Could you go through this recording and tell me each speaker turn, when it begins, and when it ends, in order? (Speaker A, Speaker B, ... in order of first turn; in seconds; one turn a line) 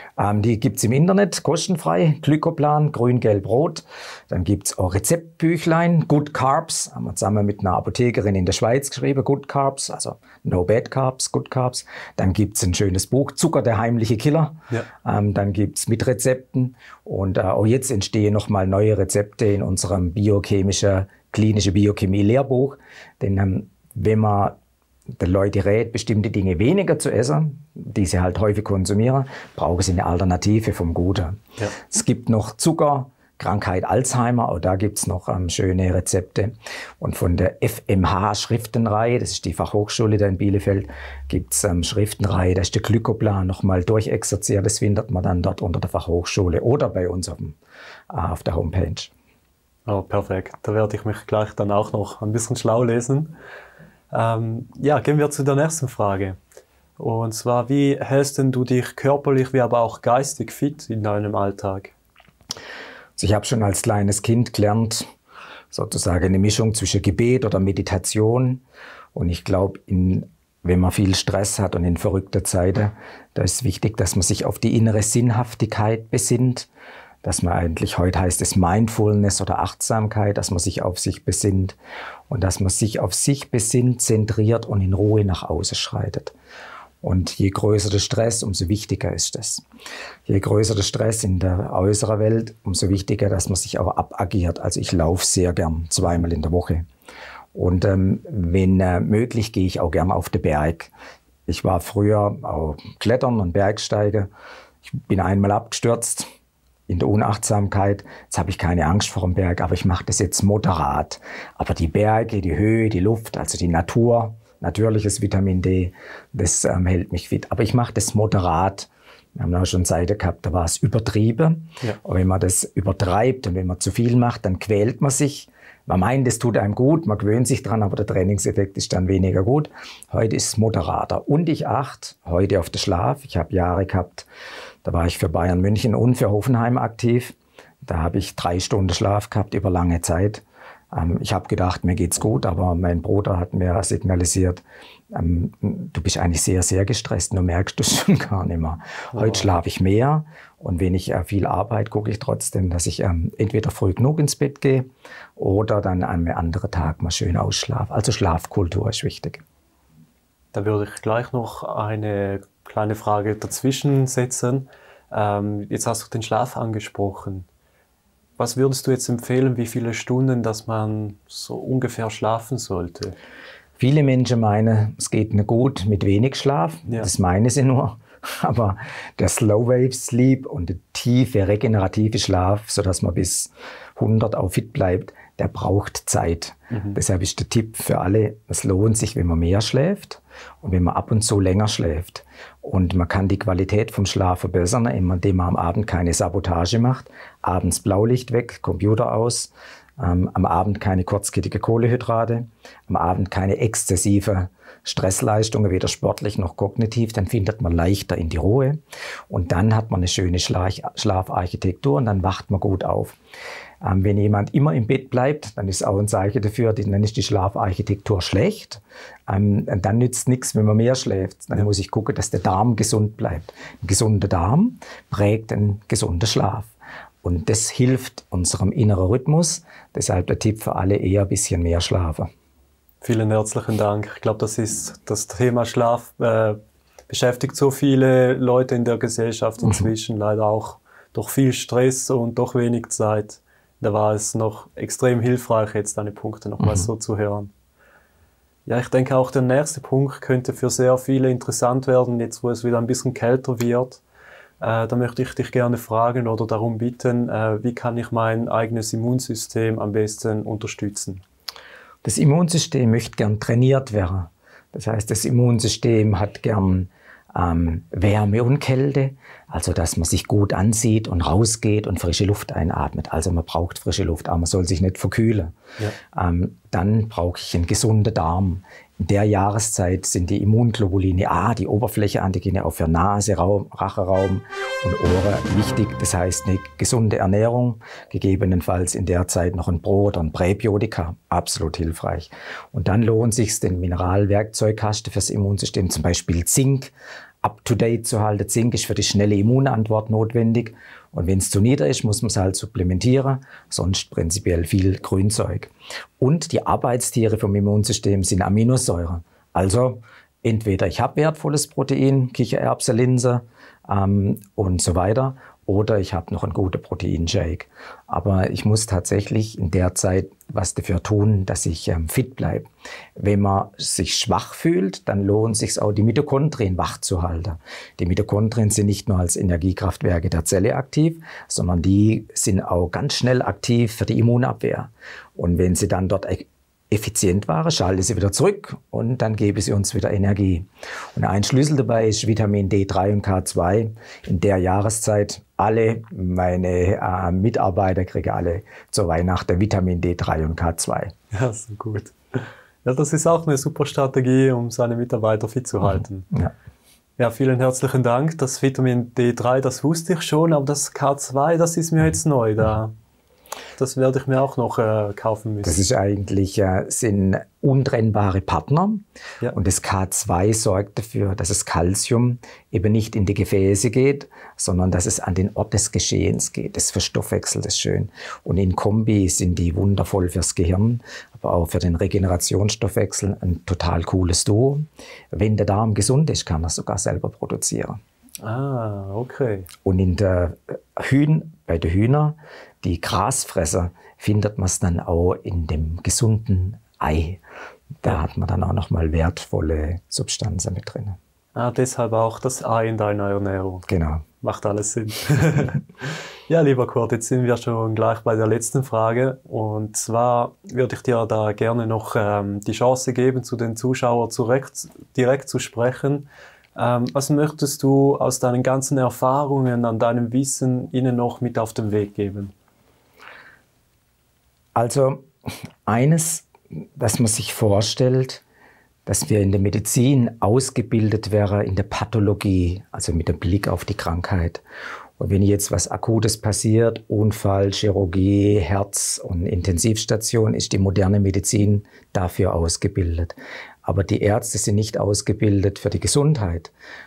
Speaker A: 0.2-24.6
Speaker A: 25.2-47.6
Speaker A: 48.1-49.1
Speaker B: 49.9-53.4
Speaker B: 54.1-56.4
Speaker B: 57.0-61.9
Speaker A: 63.2-65.1
Speaker A: 65.7-76.7
Speaker A: 77.2-81.8
Speaker A: 82.3-86.3
Speaker A: 87.0-89.6
Speaker A: 90.3-96.9
Speaker A: 97.5-100.9
Speaker A: 101.5-104.3
Speaker A: 104.8-106.3
Speaker A: 106.9-134.3
Speaker A: 134.8-159.4
Speaker B: 149.1-149.5
Speaker B: 160.5-167.5
Speaker B: 168.4-173.2
Speaker A: 173.8-208.8
Speaker B: 186.7-187.0
Speaker A: 209.3-213.2
Speaker A: 213.8-226.7
Speaker A: 227.2-232.3
Speaker B: 233.0-236.6
Speaker B: 237.1-247.5
Speaker A: 246.6-246.9
Speaker B: 248.7-254.0
Speaker B: 254.6-261.2
Speaker A: 262.0-275.5
Speaker A: 276.1-351.1
Speaker B: 351.3-356.3
Speaker B: 357.2-362.9
Speaker B: 363.8-365.8
Speaker A: 365.6-388.0
Speaker B: 388.4-389.7
Speaker A: 389.9-397.4
Speaker A: 398.0-401.2
Speaker B: 401.6-403.9
Speaker A: 403.9-404.2
Speaker B: 404.4-422.5
Speaker A: 424.8-425.3
Speaker A: 425.9-428.4
Speaker A: 429.1-434.6
Speaker A: 435.2-446.7